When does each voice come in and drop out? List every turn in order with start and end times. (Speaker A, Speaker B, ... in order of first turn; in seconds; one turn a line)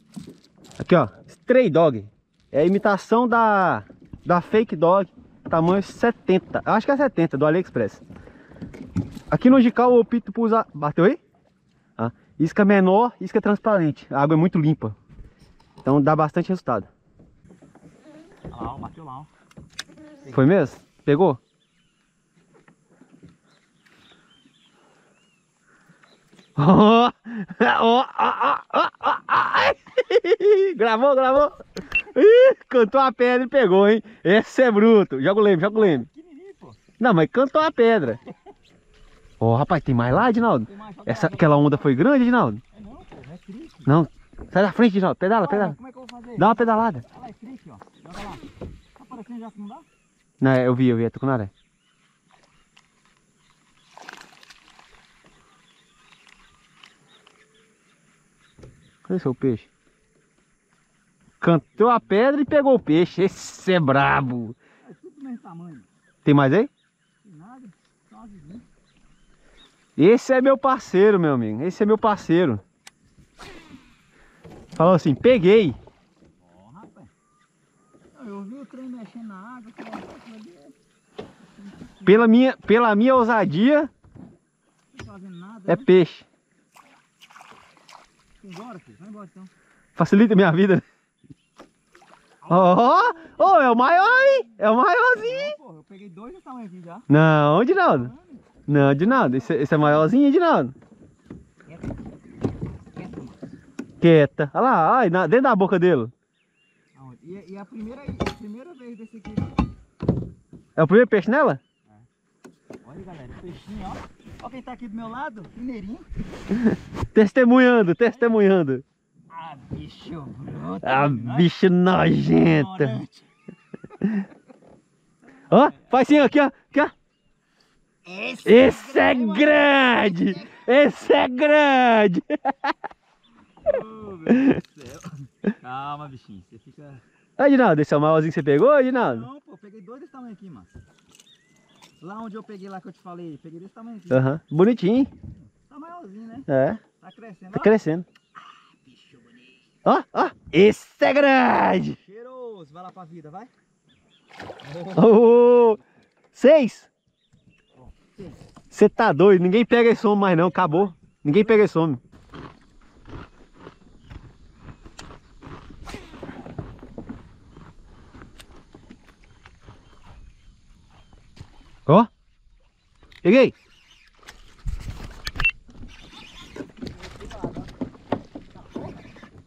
Speaker A: 0.8-8.0
Speaker A: 9.3-11.2
Speaker A: 12.0-15.0
Speaker A: 15.8-16.9
Speaker B: 18.5-19.3
Speaker A: 20.2-21.4
Speaker A: 26.6-36.1
Speaker B: 35.6-36.8
Speaker A: 37.0-38.2
Speaker A: 39.4-42.6
Speaker B: 40.7-41.8
Speaker B: 42.7-43.9
Speaker A: 43.9-45.8
Speaker B: 45.4-49.9
Speaker A: 46.4-47.0
Speaker A: 50.4-51.5
Speaker A: 59.0-59.7
Speaker A: 61.4-64.6
Speaker B: 64.8-65.9
Speaker A: 66.2-66.7
Speaker B: 67.2-68.7
Speaker A: 70.0-72.6
Speaker A: 74.8-75.8
Speaker B: 76.4-77.1
Speaker B: 78.1-80.8
Speaker B: 81.6-82.2
Speaker A: 82.0-83.9
Speaker B: 84.9-85.9
Speaker A: 85.7-86.2
Speaker B: 88.4-89.5
Speaker A: 90.0-90.8
Speaker B: 92.5-94.5
Speaker A: 92.5-95.6
Speaker B: 95.1-97.1
Speaker A: 97.1-98.1
Speaker B: 97.8-99.8
Speaker A: 98.7-100.7
Speaker B: 102.9-103.4
Speaker A: 104.0-106.1
Speaker B: 107.0-109.5
Speaker A: 110.8-111.6
Speaker B: 112.8-116.1
Speaker A: 116.5-118.8
Speaker B: 119.3-121.5
Speaker A: 120.8-123.0
Speaker B: 122.3-123.3
Speaker A: 125.4-126.9
Speaker B: 128.0-130.6
Speaker A: 128.4-132.7
Speaker B: 133.6-137.0
Speaker A: 137.4-139.2
Speaker B: 139.0-140.8
Speaker B: 142.0-144.4
Speaker A: 144.1-145.1
Speaker B: 145.4-146.5
Speaker A: 146.5-146.8
Speaker B: 147.0-147.8
Speaker A: 147.5-148.1
Speaker B: 148.5-149.6
Speaker A: 149.8-152.0
Speaker B: 152.0-153.5
Speaker B: 154.7-155.1
Speaker A: 154.9-155.8
Speaker A: 156.3-156.9
Speaker B: 157.8-158.4
Speaker A: 158.7-162.0
Speaker B: 160.6-160.9
Speaker A: 173.2-173.5
Speaker B: 176.8-177.7